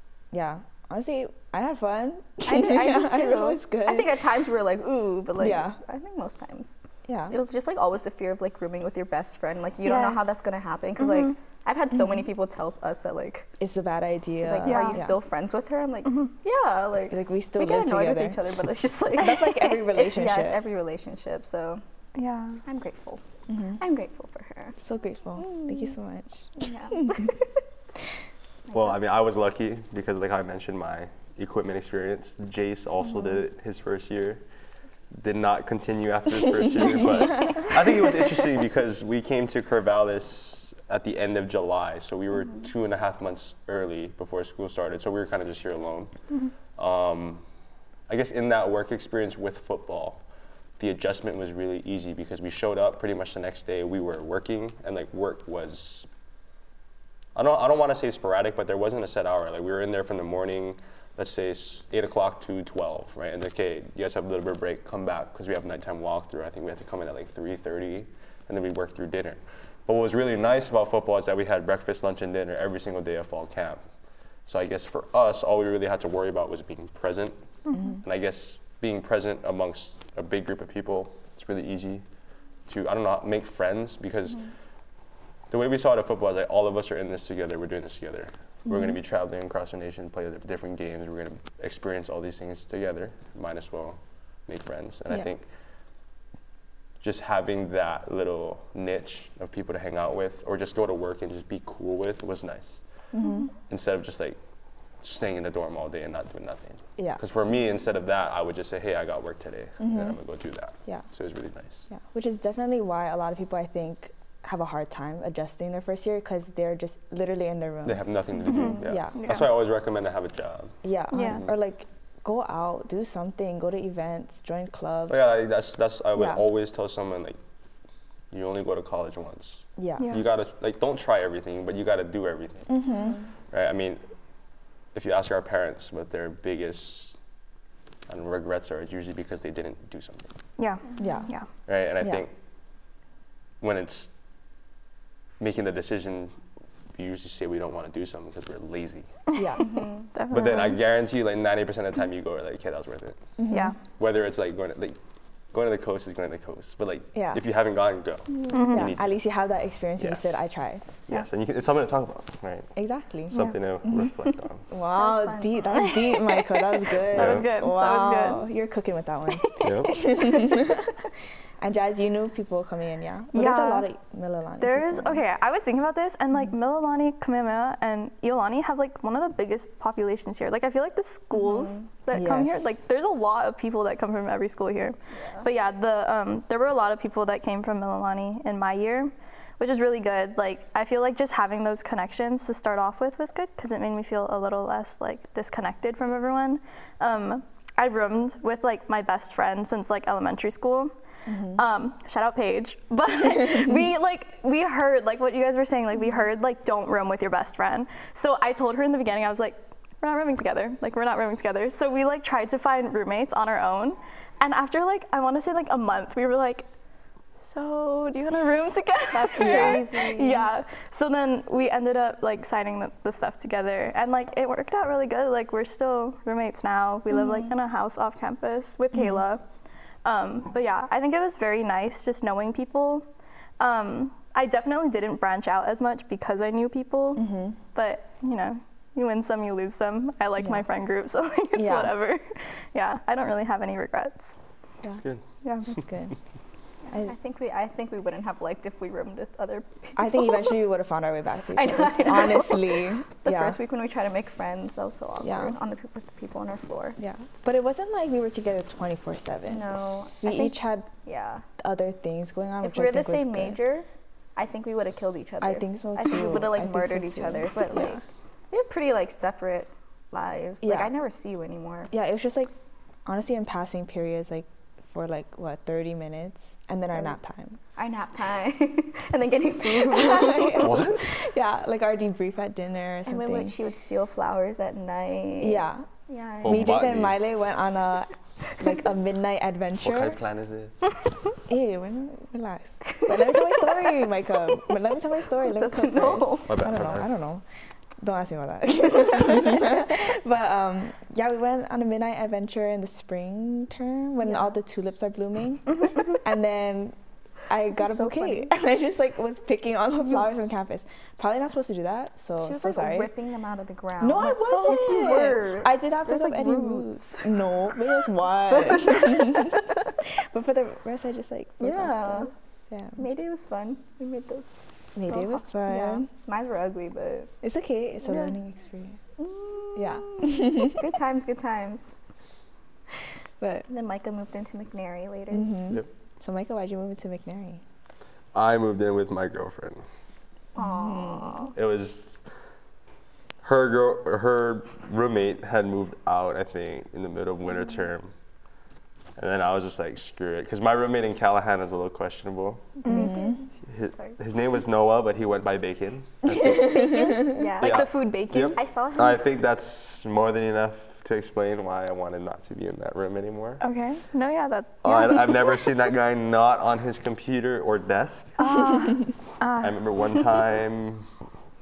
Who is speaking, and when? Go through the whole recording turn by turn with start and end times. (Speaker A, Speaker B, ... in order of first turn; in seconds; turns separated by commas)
Speaker A: 0.3-4.2, Speaker B: 2.5-6.8, Speaker A: 5.4-5.8, Speaker A: 7.1-7.3, Speaker B: 7.3-13.5, Speaker C: 9.8-10.4, Speaker C: 11.0-11.3, Speaker A: 13.6-15.1, Speaker B: 14.4-21.8, Speaker C: 14.7-15.0, Speaker A: 17.1-18.4, Speaker A: 19.1-20.6, Speaker C: 22.1-22.6, Speaker B: 22.6-23.2, Speaker A: 23.5-23.8, Speaker B: 23.7-24.8, Speaker A: 24.8-27.2, Speaker B: 25.4-25.9, Speaker B: 26.6-27.6, Speaker B: 28.7-28.9, Speaker D: 28.7-34.4, Speaker D: 35.2-46.1, Speaker D: 46.8-47.4, Speaker D: 48.1-50.2, Speaker D: 50.8-56.1, Speaker D: 57.4-73.8, Speaker D: 74.5-77.3, Speaker D: 78.0-82.0, Speaker D: 82.7-84.5, Speaker D: 85.5-95.4, Speaker D: 97.0-102.8, Speaker A: 103.1-103.5, Speaker D: 103.7-104.4, Speaker D: 105.0-111.8, Speaker A: 109.8-110.2, Speaker A: 111.9-118.0, Speaker D: 117.8-121.5, Speaker C: 118.5-119.5, Speaker A: 118.8-119.3, Speaker A: 120.8-125.3, Speaker C: 121.1-121.4, Speaker D: 125.1-127.4, Speaker A: 126.2-126.4, Speaker D: 128.3-132.8, Speaker A: 129.8-130.1, Speaker C: 130.0-130.2, Speaker A: 132.7-133.2, Speaker D: 133.5-134.0, Speaker D: 134.9-137.2, Speaker D: 138.1-140.3, Speaker C: 140.6-141.5, Speaker A: 141.0-141.3, Speaker D: 141.7-142.3, Speaker D: 143.6-144.1, Speaker D: 145.4-146.3, Speaker D: 146.9-149.1, Speaker C: 149.3-150.8, Speaker A: 149.3-149.7, Speaker B: 149.6-150.1, Speaker D: 150.3-153.2, Speaker A: 153.4-153.8, Speaker C: 153.5-153.8, Speaker D: 154.0-155.0, Speaker D: 155.5-159.2, Speaker A: 157.1-157.4, Speaker C: 158.5-158.9, Speaker A: 158.7-160.8, Speaker D: 160.0-160.4, Speaker D: 161.1-162.7, Speaker A: 162.8-164.1, Speaker D: 163.3-164.6, Speaker A: 164.7-171.0, Speaker B: 164.9-165.8, Speaker C: 165.7-168.4, Speaker D: 167.1-167.5, Speaker D: 169.6-170.1, Speaker A: 171.6-175.2, Speaker C: 173.3-173.9, Speaker C: 174.6-200.9, Speaker B: 181.3-181.9, Speaker A: 182.1-182.7, Speaker B: 185.1-185.5, Speaker A: 201.3-201.6, Speaker C: 201.5-216.7, Speaker C: 217.4-229.4, Speaker B: 219.1-220.5, Speaker A: 219.4-219.8, Speaker B: 227.1-227.5, Speaker A: 228.9-229.2, Speaker C: 230.1-233.1, Speaker C: 233.6-244.3, Speaker A: 237.2-237.6, Speaker A: 241.5-242.0, Speaker D: 244.9-245.2, Speaker C: 245.4-245.7, Speaker A: 245.7-246.2, Speaker B: 246.8-250.6, Speaker A: 250.0-253.6, Speaker B: 251.6-257.0, Speaker A: 255.2-255.6, Speaker A: 257.0-259.7, Speaker B: 259.5-261.5, Speaker A: 260.2-260.9, Speaker A: 261.6-263.6, Speaker B: 262.6-271.9, Speaker A: 265.4-268.0, Speaker A: 270.6-270.9, Speaker A: 271.9-272.5, Speaker A: 273.1-277.6, Speaker B: 277.8-280.9, Speaker A: 279.7-283.6, Speaker D: 280.6-281.1, Speaker B: 283.1-286.9, Speaker A: 285.4-285.9, Speaker D: 286.4-287.2, Speaker A: 286.4-290.2, Speaker D: 289.8-290.8, Speaker A: 291.5-297.4, Speaker B: 295.4-296.6, Speaker D: 296.5-297.1, Speaker A: 298.0-307.0, Speaker A: 307.5-313.1, Speaker B: 307.7-308.5, Speaker B: 312.4-317.4, Speaker A: 314.0-323.0, Speaker B: 318.5-319.6, Speaker B: 321.6-322.3, Speaker B: 323.0-327.3, Speaker A: 324.9-326.1, Speaker A: 327.4-329.0, Speaker B: 329.2-332.0, Speaker A: 329.8-330.8, Speaker A: 333.4-333.7, Speaker B: 333.7-335.6, Speaker A: 335.3-337.6, Speaker D: 338.3-339.8, Speaker B: 340.6-341.5, Speaker A: 340.6-341.4, Speaker D: 341.6-342.2, Speaker D: 343.4-348.1, Speaker D: 349.2-352.8, Speaker C: 352.8-353.2, Speaker B: 352.9-353.4, Speaker A: 352.9-353.4, Speaker D: 353.7-363.6, Speaker B: 353.9-354.2, Speaker A: 356.3-357.5, Speaker C: 356.8-358.6, Speaker B: 357.0-359.2, Speaker C: 363.6-365.7, Speaker D: 364.8-368.4, Speaker C: 368.4-369.8, Speaker D: 369.6-371.1